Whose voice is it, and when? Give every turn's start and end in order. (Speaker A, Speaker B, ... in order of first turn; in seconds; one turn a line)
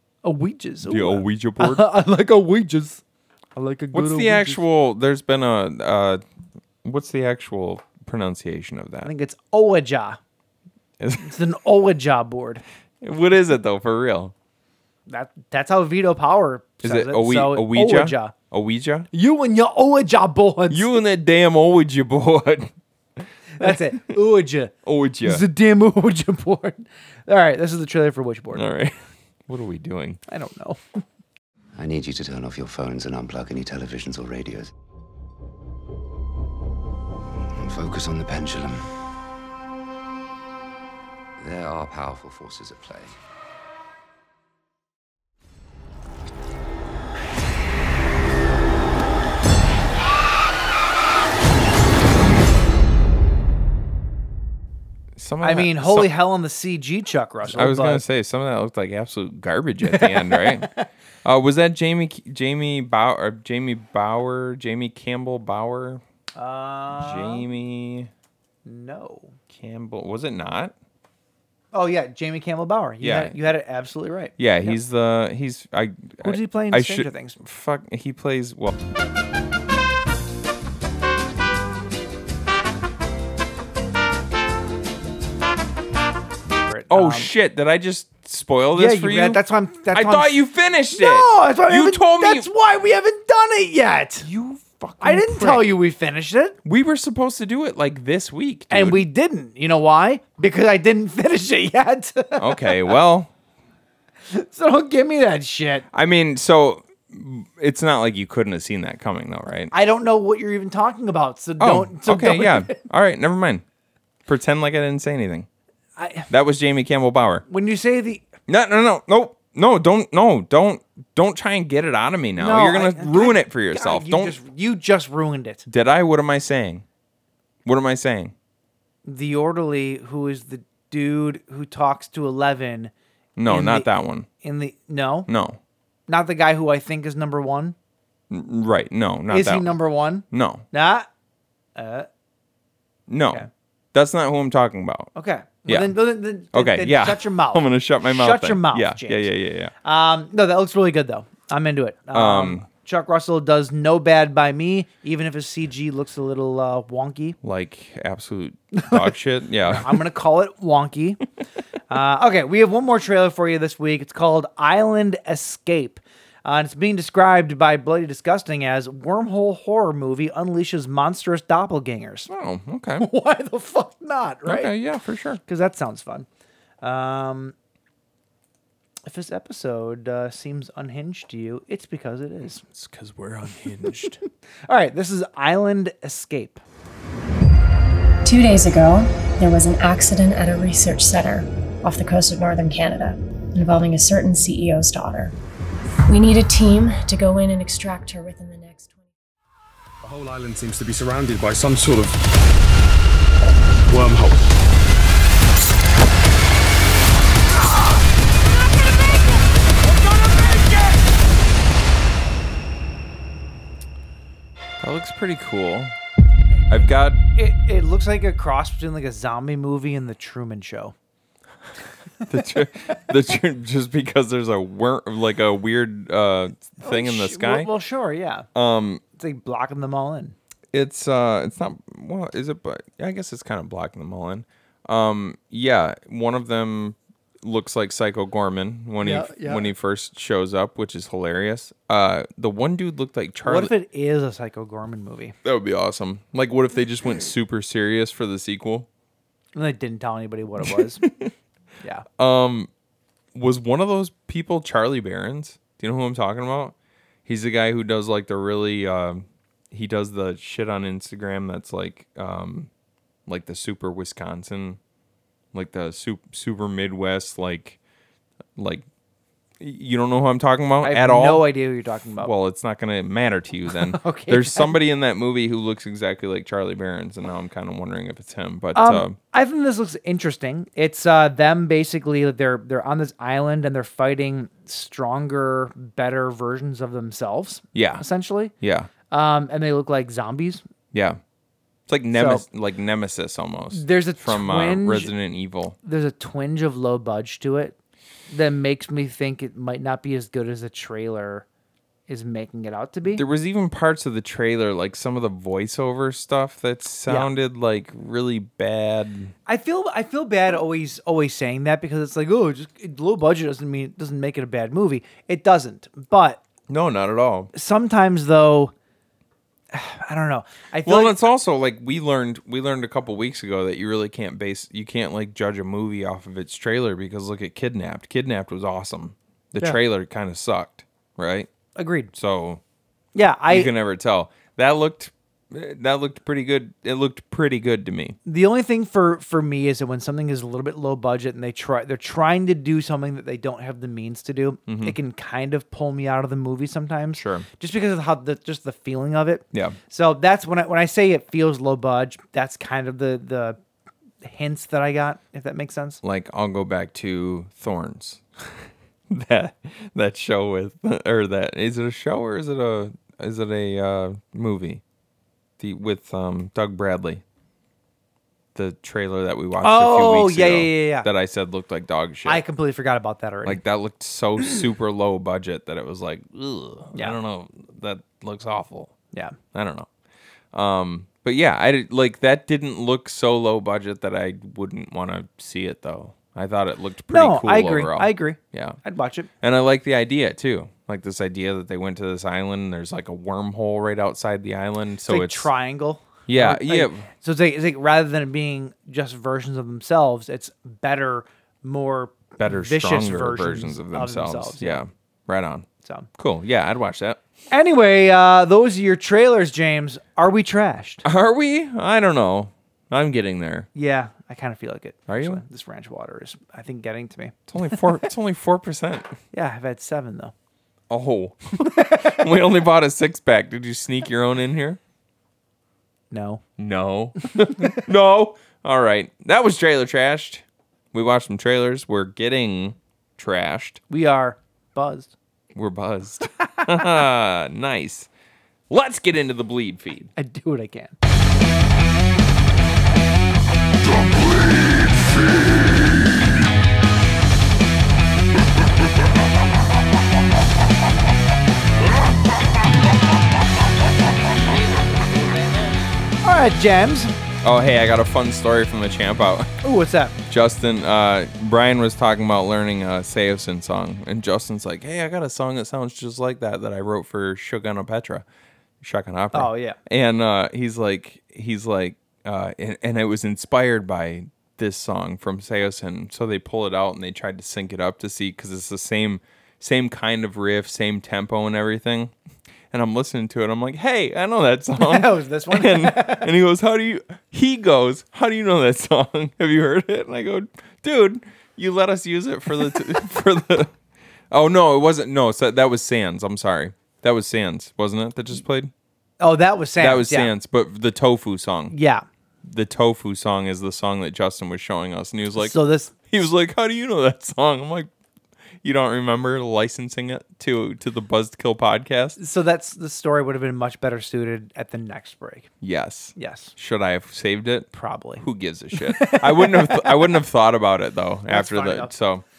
Speaker A: 0.2-3.0
Speaker B: 0.8-1.9
Speaker A: 3.5-4.6
Speaker B: 3.9-6.2
Speaker B: 6.8-9.1
Speaker A: 9.0-10.2
Speaker B: 11.0-11.3
Speaker A: 11.2-12.6
Speaker B: 13.0-14.3
Speaker A: 15.1-18.3
Speaker B: 16.8-19.1
Speaker A: 19.1-20.9
Speaker B: 20.7-24.2
Speaker A: 23.6-28.6
Speaker B: 24.8-25.4
Speaker B: 28.5-30.2
Speaker A: 30.3-30.8
Speaker C: 31.8-34.7
Speaker C: 37.5-38.9
Speaker C: 41.4-43.1
Speaker B: 55.1-56.1
Speaker A: 55.4-58.0
Speaker B: 57.4-60.7
Speaker A: 59.9-60.8
Speaker B: 61.2-66.0
Speaker A: 66.3-67.5
Speaker B: 66.9-68.1
Speaker A: 68.6-69.3
Speaker B: 69.5-70.7
Speaker A: 71.7-74.8
Speaker B: 73.0-73.4
Speaker B: 74.4-78.8
Speaker A: 76.2-77.4
Speaker A: 86.6-87.3
Speaker B: 86.9-92.5
Speaker A: 88.7-94.3
Speaker B: 94.2-95.7
Speaker A: 95.0-96.6
Speaker B: 96.6-99.0
Speaker A: 98.7-103.0
Speaker B: 102.4-103.3
Speaker A: 104.3-105.8
Speaker B: 105.9-109.7
Speaker A: 109.7-112.8
Speaker B: 111.6-113.6
Speaker B: 114.3-115.5
Speaker A: 116.0-116.3
Speaker B: 116.3-117.4
Speaker A: 117.5-118.2
Speaker B: 118.5-124.4
Speaker A: 122.4-125.7
Speaker B: 125.7-126.8
Speaker B: 127.6-128.3
Speaker A: 129.1-132.9
Speaker B: 133.4-134.3
Speaker A: 133.5-133.9
Speaker A: 134.4-135.3
Speaker B: 135.3-135.6
Speaker A: 136.1-137.8
Speaker B: 138.3-139.7
Speaker A: 139.3-141.1
Speaker B: 140.3-140.7
Speaker A: 141.8-142.1
Speaker B: 143.1-145.1
Speaker A: 145.1-149.3
Speaker B: 145.7-146.0
Speaker B: 146.5-149.7
Speaker A: 149.8-157.4
Speaker B: 152.1-152.7
Speaker B: 157.4-160.0
Speaker A: 158.7-159.1
Speaker A: 159.7-161.2
Speaker A: 161.9-172.3
Speaker B: 172.3-173.1
Speaker A: 173.0-174.7
Speaker B: 174.4-175.4
Speaker A: 175.5-176.3
Speaker A: 176.8-177.5
Speaker A: 179.1-182.6
Speaker B: 182.7-184.2
Speaker A: 184.7-186.6
Speaker D: 188.2-195.3
Speaker D: 196.1-198.9
Speaker E: 200.0-202.1
Speaker E: 203.8-204.5
Speaker B: 214.8-215.9
Speaker B: 216.7-217.2
Speaker A: 217.3-220.9
Speaker B: 222.3-227.7
Speaker A: 226.8-228.5
Speaker B: 228.5-229.0
Speaker A: 229.2-230.3
Speaker B: 230.7-243.7
Speaker A: 239.0-239.7
Speaker A: 243.4-245.3
Speaker B: 245.4-248.9
Speaker A: 249.5-251.0
Speaker B: 250.6-251.3
Speaker B: 252.2-252.7
Speaker B: 253.3-256.7
Speaker B: 257.2-262.7
Speaker B: 263.2-264.8
Speaker B: 265.5-267.8
Speaker B: 268.6-268.8
Speaker B: 269.6-271.4
Speaker A: 270.8-272.3
Speaker B: 272.2-279.2
Speaker A: 273.7-274.8
Speaker A: 278.7-288.5
Speaker B: 287.7-288.0
Speaker B: 288.6-288.9
Speaker A: 289.1-290.6
Speaker B: 290.9-291.2
Speaker B: 291.9-295.8
Speaker A: 292.1-292.4
Speaker A: 293.7-295.1
Speaker A: 295.8-297.8
Speaker A: 298.3-301.4
Speaker A: 302.1-303.2
Speaker B: 303.1-309.3
Speaker A: 309.4-316.4
Speaker B: 316.7-317.5
Speaker A: 317.5-318.7
Speaker A: 319.7-321.2
Speaker B: 320.8-331.5
Speaker A: 331.7-332.1
Speaker B: 332.1-332.6
Speaker A: 333.1-333.7
Speaker B: 333.5-338.2
Speaker A: 338.2-353.6
Speaker B: 344.7-344.9
Speaker B: 347.1-347.5
Speaker B: 349.5-349.8
Speaker A: 354.2-356.0
Speaker B: 356.0-364.8
Speaker B: 365.6-367.2
Speaker B: 368.5-372.4
Speaker A: 369.6-371.1
Speaker A: 372.2-373.6
Speaker B: 373.4-378.9
Speaker B: 379.5-379.9
Speaker B: 380.5-388.8
Speaker A: 387.1-389.3
Speaker B: 389.4-395.5
Speaker A: 395.1-404.8
Speaker B: 396.3-397.1
Speaker B: 402.4-407.2
Speaker A: 407.5-411.0
Speaker B: 411.0-413.7
Speaker A: 413.7-417.8
Speaker B: 415.1-415.4
Speaker B: 417.5-419.2
Speaker A: 419.3-420.3
Speaker B: 420.9-424.8
Speaker A: 426.1-426.4
Speaker B: 426.6-433.8
Speaker A: 433.9-435.1
Speaker B: 435.5-438.1
Speaker B: 438.7-440.1
Speaker A: 440.1-440.9
Speaker A: 456.2-457.1
Speaker B: 457.4-459.5
Speaker A: 459.6-460.1
Speaker B: 460.3-468.2
Speaker B: 468.8-482.1
Speaker A: 469.3-469.8
Speaker B: 482.7-493.7
Speaker A: 484.8-486.3
Speaker B: 494.3-498.7
Speaker A: 499.2-500.3
Speaker B: 499.8-501.7
Speaker A: 501.7-502.0
Speaker B: 502.4-507.9
Speaker A: 505.4-505.9
Speaker B: 508.6-512.2
Speaker A: 512.2-515.5
Speaker B: 515.6-522.2
Speaker A: 516.1-516.5
Speaker A: 517.7-520.2
Speaker A: 521.3-521.9